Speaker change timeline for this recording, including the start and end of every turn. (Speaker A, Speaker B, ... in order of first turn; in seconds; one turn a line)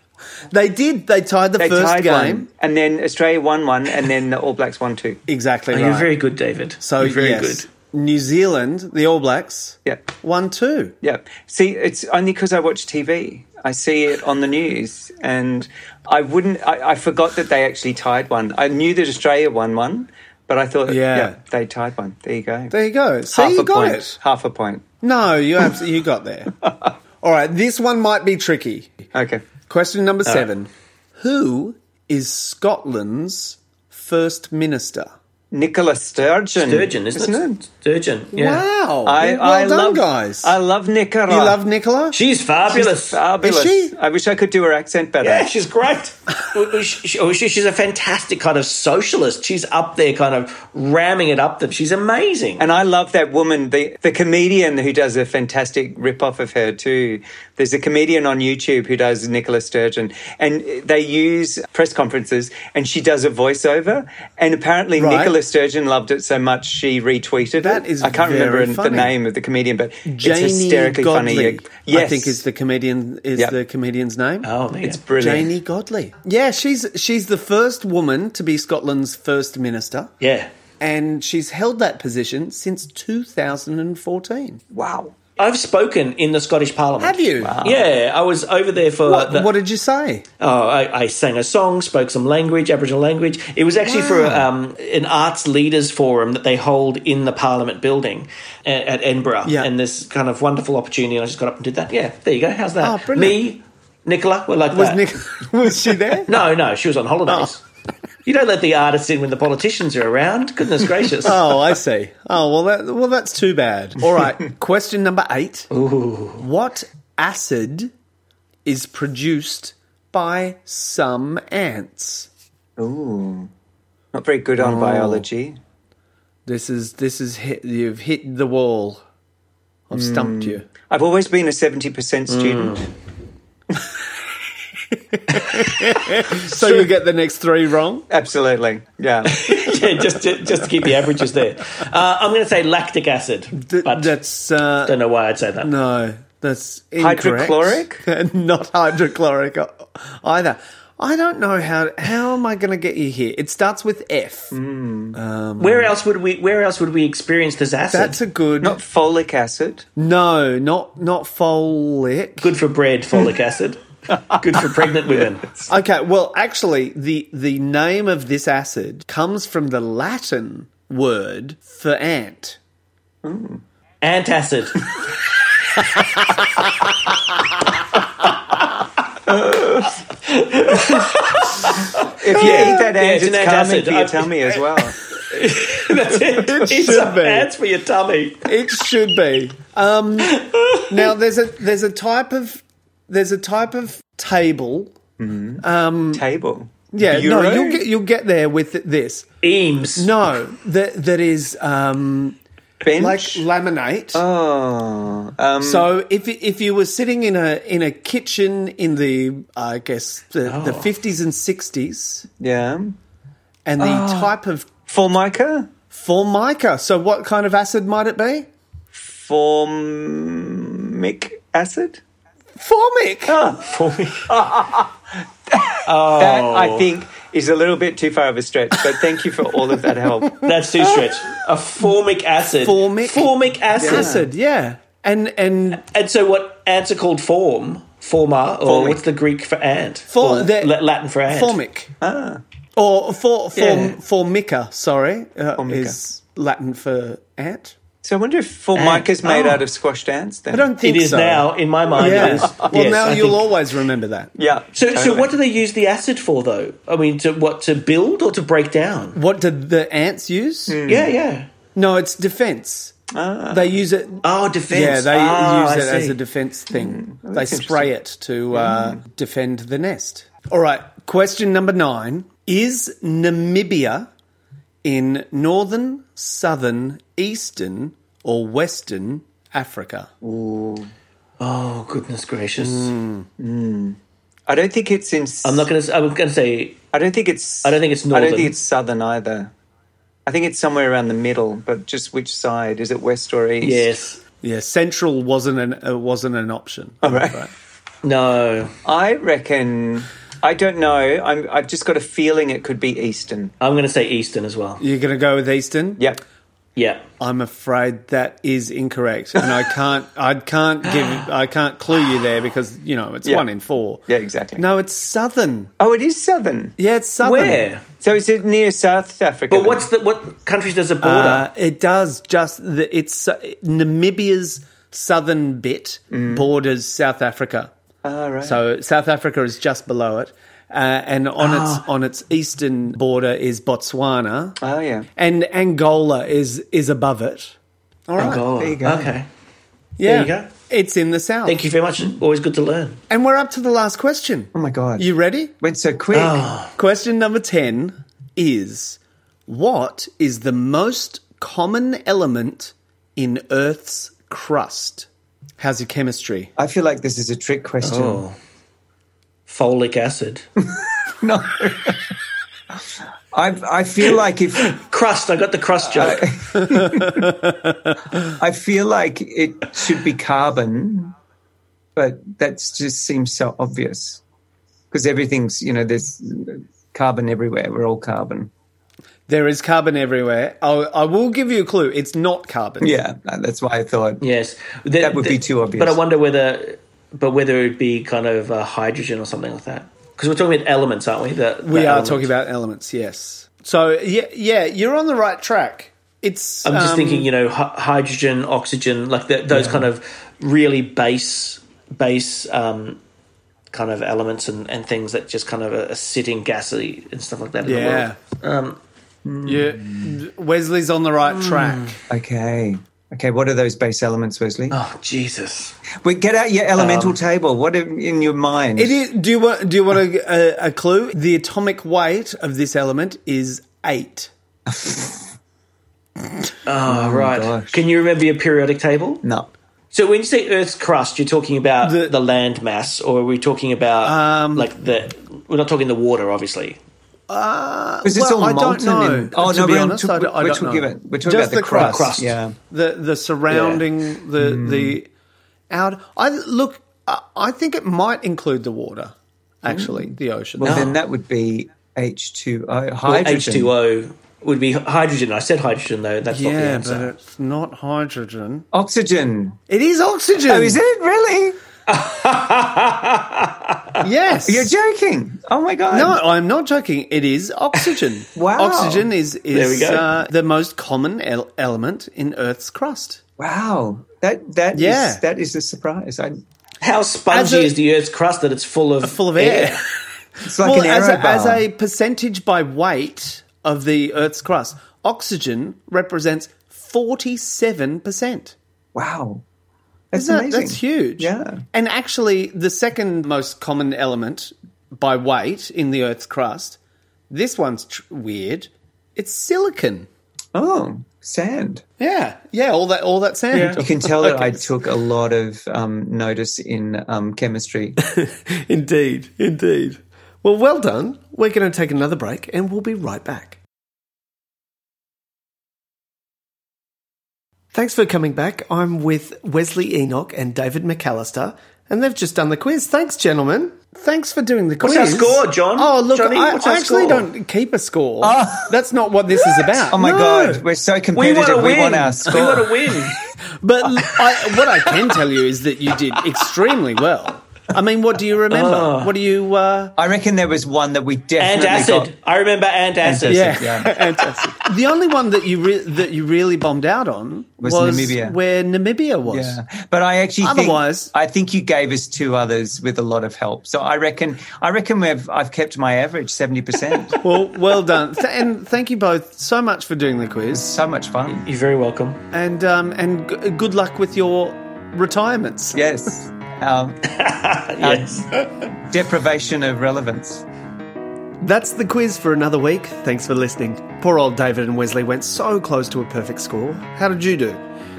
Speaker A: 0.5-2.5
Speaker B: 1.6-5.2
Speaker A: 5.3-6.2
Speaker C: 5.7-7.7
Speaker A: 6.8-10.9
Speaker B: 11.0-22.8
Speaker A: 20.9-21.4
Speaker A: 22.7-24.2
Speaker B: 23.3-24.9
Speaker A: 25.0-26.5
Speaker A: 27.2-29.0
Speaker B: 29.1-29.4
Speaker A: 29.7-35.1
Speaker B: 35.5-37.6
Speaker C: 36.6-38.6
Speaker A: 38.3-40.6
Speaker B: 39.0-41.6
Speaker A: 41.3-42.2
Speaker C: 42.1-43.2
Speaker B: 42.7-45.5
Speaker A: 43.4-44.0
Speaker C: 45.2-52.7
Speaker B: 52.6-72.4
Speaker A: 65.0-65.4
Speaker A: 67.5-69.1
Speaker A: 70.1-74.5
Speaker C: 74.4-75.0
Speaker B: 74.8-75.5
Speaker A: 75.2-80.1
Speaker C: 80.2-80.5
Speaker A: 80.8-84.6
Speaker B: 84.7-85.2
Speaker C: 85.4-89.5
Speaker A: 87.0-87.6
Speaker B: 87.4-87.9
Speaker A: 89.0-90.3
Speaker C: 90.4-105.0
Speaker A: 93.8-94.5
Speaker A: 102.8-103.5
Speaker A: 104.7-106.4
Speaker C: 106.3-107.6
Speaker A: 107.3-107.5
Speaker C: 108.2-111.5
Speaker A: 111.2-115.7
Speaker C: 115.7-116.4
Speaker A: 116.4-117.9
Speaker A: 118.7-122.3
Speaker B: 122.8-123.5
Speaker B: 124.1-125.6
Speaker A: 124.6-125.2
Speaker A: 126.5-129.0
Speaker A: 129.9-130.7
Speaker B: 129.9-132.9
Speaker C: 132.3-132.9
Speaker A: 134.9-138.1
Speaker B: 136.5-136.9
Speaker B: 138.1-139.8
Speaker C: 139.2-144.2
Speaker A: 143.5-145.0
Speaker C: 144.8-145.7
Speaker A: 145.6-154.6
Speaker B: 147.0-148.0
Speaker B: 154.5-155.2
Speaker A: 155.1-155.9
Speaker C: 155.6-158.2
Speaker A: 157.9-158.8
Speaker B: 158.6-159.9
Speaker A: 160.0-162.5
Speaker C: 162.4-165.5
Speaker A: 165.7-172.6
Speaker B: 173.2-173.6
Speaker C: 174.0-174.9
Speaker B: 179.3-179.9
Speaker C: 180.2-184.3
Speaker B: 182.2-185.0
Speaker A: 182.4-182.9
Speaker C: 185.3-188.5
Speaker A: 186.1-187.5
Speaker A: 188.5-194.9
Speaker C: 190.2-191.1
Speaker B: 195.2-197.8
Speaker A: 195.6-196.2
Speaker A: 196.9-199.3
Speaker C: 199.4-200.1
Speaker A: 200.0-202.4
Speaker B: 202.8-203.4
Speaker A: 203.0-204.2
Speaker B: 204.1-205.9
Speaker A: 205.6-212.3
Speaker C: 210.4-210.9
Speaker B: 212.4-213.0
Speaker A: 213.7-214.7
Speaker B: 213.8-214.3
Speaker B: 214.9-215.7
Speaker A: 215.9-218.5
Speaker B: 218.9-222.0
Speaker A: 222.6-223.4
Speaker B: 223.3-224.9
Speaker C: 223.6-224.3
Speaker B: 225.5-231.2
Speaker C: 225.8-226.9
Speaker C: 230.4-234.2
Speaker A: 232.6-235.8
Speaker B: 233.8-234.3
Speaker C: 235.7-241.6
Speaker B: 238.7-239.0
Speaker A: 240.1-241.9
Speaker B: 242.0-242.4
Speaker A: 242.8-247.8
Speaker C: 243.6-244.0
Speaker B: 245.6-246.0
Speaker B: 248.0-250.7
Speaker C: 248.8-249.7
Speaker A: 250.5-254.3
Speaker C: 250.8-253.5
Speaker B: 252.0-252.7
Speaker B: 254.4-255.3
Speaker C: 254.8-259.2
Speaker A: 259.1-260.8
Speaker B: 260.7-261.1
Speaker C: 260.9-261.5
Speaker A: 261.8-262.9
Speaker B: 263.1-263.8
Speaker A: 263.5-274.1
Speaker C: 264.2-266.2
Speaker B: 266.7-267.9
Speaker B: 268.5-269.0
Speaker A: 274.8-280.1
Speaker B: 280.2-280.9
Speaker C: 281.4-282.9
Speaker A: 282.6-283.3
Speaker B: 283.4-285.7
Speaker C: 285.4-286.8
Speaker B: 286.9-289.5
Speaker C: 287.6-288.6
Speaker B: 290.3-293.9
Speaker C: 293.6-294.2
Speaker A: 294.4-297.5
Speaker B: 297.0-297.5
Speaker C: 298.0-298.8
Speaker B: 298.9-303.5
Speaker C: 303.6-304.8
Speaker A: 304.8-306.0
Speaker C: 306.8-307.0
Speaker A: 307.2-314.0
Speaker C: 310.9-311.2
Speaker B: 314.1-314.6
Speaker A: 314.6-315.7
Speaker B: 315.8-316.8
Speaker A: 316.8-317.6
Speaker C: 317.2-317.8
Speaker B: 318.0-319.9
Speaker C: 319.5-321.5
Speaker A: 321.0-327.7
Speaker B: 326.1-326.5
Speaker B: 328.0-328.6
Speaker A: 328.4-334.6
Speaker C: 331.4-331.9
Speaker B: 334.6-335.1
Speaker A: 335.2-337.6
Speaker A: 338.1-338.4
Speaker C: 338.2-339.3
Speaker B: 338.2-339.1
Speaker A: 340.0-341.6
Speaker C: 340.0-340.5
Speaker C: 341.4-343.0
Speaker A: 343.1-345.5
Speaker B: 344.5-345.1
Speaker B: 345.6-346.5
Speaker C: 346.1-346.7
Speaker A: 346.8-355.1
Speaker A: 355.6-356.5
Speaker B: 356.6-358.2
Speaker C: 357.8-358.4
Speaker C: 359.5-360.4
Speaker B: 360.6-362.1
Speaker B: 363.3-364.7
Speaker C: 364.6-366.4
Speaker B: 365.9-367.3
Speaker A: 366.6-368.3
Speaker B: 368.2-371.1
Speaker B: 372.0-374.2
Speaker B: 374.9-378.5
Speaker A: 379.3-383.0
Speaker B: 382.8-384.2
Speaker C: 384.2-392.3
Speaker B: 385.0-386.0
Speaker A: 391.6-397.3
Speaker C: 396.6-403.0
Speaker B: 399.5-399.9
Speaker C: 403.7-408.8
Speaker A: 407.6-408.2
Speaker B: 409.2-410.2
Speaker A: 409.4-412.0
Speaker C: 411.3-412.0
Speaker B: 412.1-414.8
Speaker C: 414.7-415.8
Speaker B: 416.0-419.0
Speaker C: 416.8-417.2
Speaker A: 418.8-424.3
Speaker B: 424.7-425.2
Speaker C: 426.7-429.2
Speaker B: 426.9-427.8
Speaker B: 429.2-429.5
Speaker C: 429.9-436.8
Speaker A: 431.8-432.2
Speaker A: 434.0-434.7
Speaker A: 437.3-445.1
Speaker B: 438.0-442.6
Speaker C: 441.7-442.4
Speaker C: 443.5-443.8
Speaker B: 444.4-445.0
Speaker A: 445.7-450.9
Speaker B: 449.7-453.7
Speaker C: 450.6-451.0
Speaker C: 453.1-457.1
Speaker A: 456.3-458.7
Speaker B: 458.7-459.6
Speaker A: 459.7-460.8
Speaker B: 460.5-461.6
Speaker C: 461.9-464.1
Speaker A: 464.0-464.8
Speaker B: 464.5-466.2
Speaker A: 465.9-473.2
Speaker B: 468.4-469.1
Speaker C: 469.5-470.1
Speaker B: 473.4-476.4
Speaker A: 474.7-475.2
Speaker C: 476.8-479.8
Speaker A: 477.3-477.8
Speaker A: 479.0-479.9
Speaker B: 480.4-481.6
Speaker A: 480.4-488.6
Speaker B: 488.9-489.4
Speaker B: 490.1-491.6
Speaker A: 490.1-496.8
Speaker A: 497.3-500.1
Speaker B: 500.5-501.8
Speaker A: 502.0-504.7
Speaker C: 503.5-504.3
Speaker B: 503.8-508.0
Speaker A: 508.0-513.6
Speaker A: 517.7-530.7
Speaker C: 524.8-527.3
Speaker B: 528.2-528.7
Speaker B: 529.8-532.9
Speaker C: 531.1-533.2
Speaker A: 533.6-540.0
Speaker C: 533.9-535.1
Speaker C: 538.5-539.1
Speaker B: 540.0-542.1
Speaker C: 541.4-543.6
Speaker B: 543.0-544.0
Speaker A: 543.3-549.6
Speaker B: 547.6-548.4
Speaker B: 549.3-557.2
Speaker A: 550.4-551.1
Speaker A: 557.2-560.7
Speaker B: 560.5-561.5
Speaker C: 561.3-562.2
Speaker A: 562.3-565.8
Speaker B: 565.7-567.0
Speaker C: 567.0-568.5
Speaker B: 567.8-570.4
Speaker A: 571.4-577.6